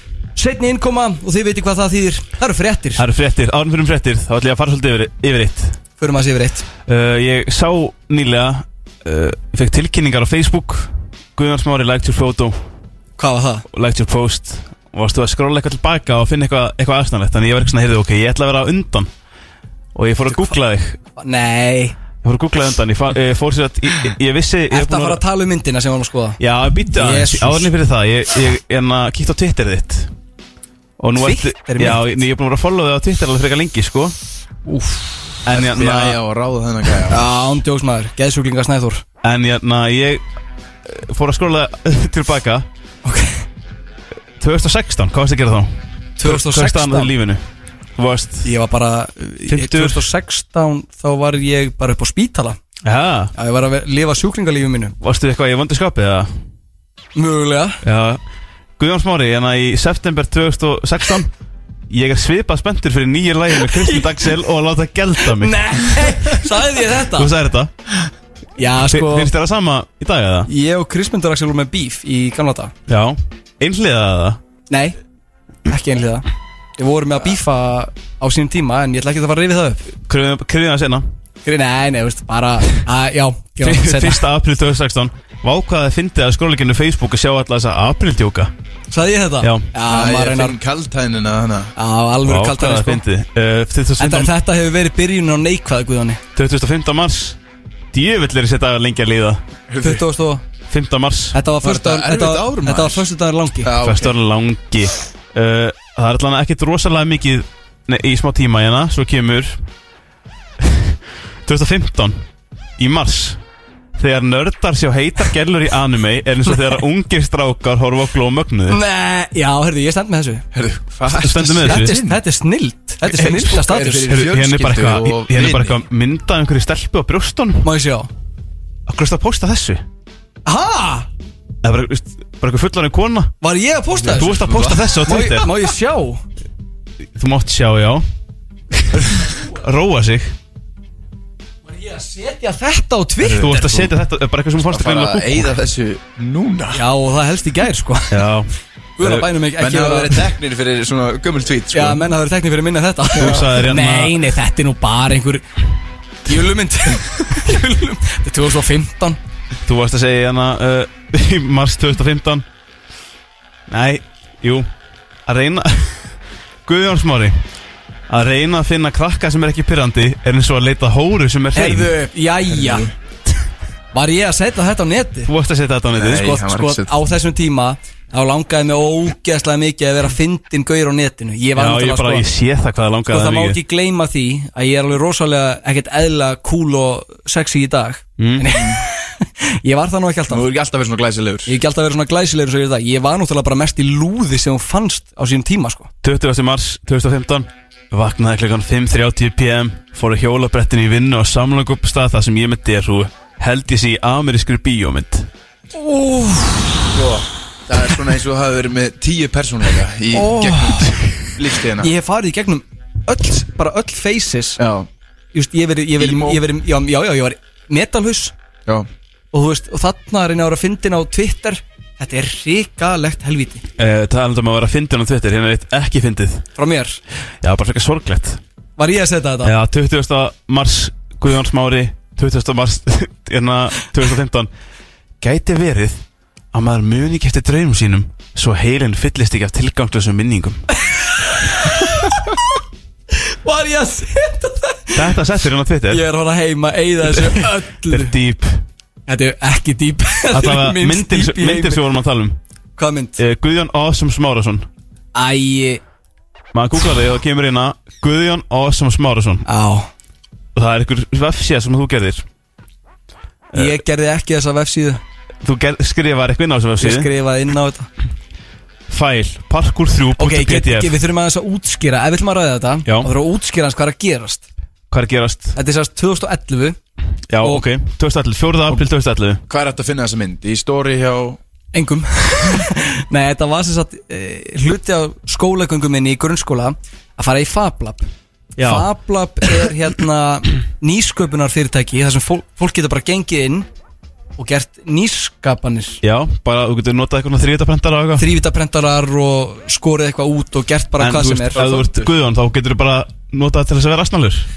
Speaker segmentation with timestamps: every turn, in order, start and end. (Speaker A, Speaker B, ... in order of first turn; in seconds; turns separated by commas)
Speaker A: 0.4-3.0, Speaker B: 3.0-5.8, Speaker A: 6.0-6.7, Speaker B: 6.9-12.6, Speaker A: 13.2-13.6, Speaker B: 13.7-19.1, Speaker B: 19.9-21.0, Speaker A: 20.3-20.6, Speaker A: 21.2-22.0, Speaker B: 22.2-25.2, Speaker A: 24.7-26.4, Speaker B: 26.4-30.1, Speaker A: 26.9-27.7, Speaker B: 31.0-34.1, Speaker A: 31.2-32.0, Speaker A: 34.7-35.2, Speaker B: 35.5-36.2, Speaker C: 35.5-37.2, Speaker A: 37.1-39.0, Speaker B: 39.2-40.2, Speaker B: 40.9-42.7, Speaker A: 43.0-43.5, Speaker B: 44.4-47.4, Speaker A: 46.2-47.1, Speaker B: 48.0-48.5, Speaker A: 48.4-52.6, Speaker B: 49.5-50.1, Speaker B: 52.8-53.3, Speaker A: 53.4-55.0, Speaker B: 55.0-56.3, Speaker A: 57.2-57.8, Speaker B: 57.8-58.2, Speaker B: 58.8-61.3, Speaker B: 61.9-67.7, Speaker A: 63.6-64.3, Speaker A: 65.2-67.3, Speaker A: 68.6-69.3, Speaker B: 68.9-70.5, Speaker A: 70.5-72.7, Speaker B: 72.9-74.4, Speaker A: 74.7-75.0, Speaker A: 75.7-76.3, Speaker A: 76.8-79.9, Speaker B: 80.1-81.0, Speaker A: 81.5-84.2, Speaker B: 83.6-88.5, Speaker A: 88.9-90.6, Speaker B: 89.4-89.7, Speaker C: 89.8-91.7, Speaker A: 91.8-93.0, Speaker B: 92.3-94.3, Speaker A: 94.0-96.2, Speaker B: 96.3-97.4, Speaker B: 97.9-99.4, Speaker C: 99.7-100.0, Speaker A: 99.8-100.4, Speaker B: 100.7-101.4, Speaker A: 101.3-103.7, Speaker C: 101.6-103.0, Speaker C: 103.6-104.1, Speaker B: 103.8-109.6, Speaker B: 110.6-112.2, Speaker B: 112.8-113.4, Speaker B: 114.0-118.8, Speaker A: 118.7-120.4, Speaker C: 120.5-122.2, Speaker B: 121.1-122.0, Speaker A: 121.6-124.1, Speaker C: 123.1-125.8, Speaker B: 124.1-127.7, Speaker A: 127.6-128.1, Speaker B: 128.9-129.8, Speaker A: 130.5-131.1, Speaker B: 131.6-133.3, Speaker A: 133.4-136.2, Speaker B: 134.1-135.5, Speaker C: 134.1-134.9, Speaker B: 137.2-138.0, Speaker B: 138.7-140.3, Speaker A: 141.7-143.9, Speaker B: 143.2-145.6, Speaker C: 143.4-143.9, Speaker C: 144.6-146.8, Speaker A: 146.7-148.2, Speaker B: 148.1-148.5, Speaker A: 149.0-150.2, Speaker C: 149.6-152.0, Speaker A: 151.7-155.4, Speaker B: 153.2-154.2, Speaker C: 153.2-153.5, Speaker A: 156.2-159.2, Speaker B: 159.7-162.4, Speaker B: 163.7-164.7, Speaker B: 165.3-166.1, Speaker B: 166.7-167.4, Speaker B: 168.1-171.9, Speaker A: 171.6-172.9, Speaker C: 172.5-172.9, Speaker A: 173.9-175.3, Speaker B: 175.3-176.3, Speaker C: 175.9-176.9, Speaker A: 176.1-182.3, Speaker B: 181.6-183.6, Speaker A: 183.1-190.4, Speaker B: 188.2-188.5, Speaker C: 188.5-188.8, Speaker C: 190.3-191.6, Speaker A: 191.5-195.9, Speaker B: 196.0-205.3, Speaker A: 205.8-206.9, Speaker C: 206.9-211.9, Speaker A: 210.1-210.9, Speaker A: 211.8-214.6, Speaker C: 214.6-214.9, Speaker A: 215.3-218.3, Speaker C: 216.0-216.4, Speaker A: 219.3-223.6, Speaker B: 223.8-226.4, Speaker A: 226.6-227.0, Speaker B: 227.4-228.4, Speaker A: 228.8-229.5, Speaker B: 229.4-234.5, Speaker B: 235.2-240.6, Speaker A: 240.9-242.4, Speaker A: 243.2-245.1, Speaker B: 244.9-246.0, Speaker A: 245.9-248.1, Speaker B: 247.0-248.6, Speaker A: 249.1-251.8, Speaker B: 250.3-252.4, Speaker A: 252.8-253.2, Speaker B: 253.2-254.7, Speaker A: 255.2-255.8, Speaker B: 256.5-259.4, Speaker A: 259.5-259.9, Speaker B: 260.6-262.2, Speaker B: 263.5-263.8, Speaker A: 263.5-265.0, Speaker B: 265.4-267.1, Speaker A: 266.8-267.9, Speaker B: 268.9-270.9, Speaker A: 270.2-274.5, Speaker B: 274.9-275.6, Speaker A: 275.6-276.8, Speaker B: 277.3-279.4, Speaker A: 277.4-277.7, Speaker C: 279.5-281.4, Speaker A: 281.7-288.1, Speaker B: 288.6-288.9, Speaker A: 288.6-293.7, Speaker A: 294.4-296.0, Speaker B: 296.0-298.3, Speaker A: 298.2-302.1, Speaker B: 301.0-304.5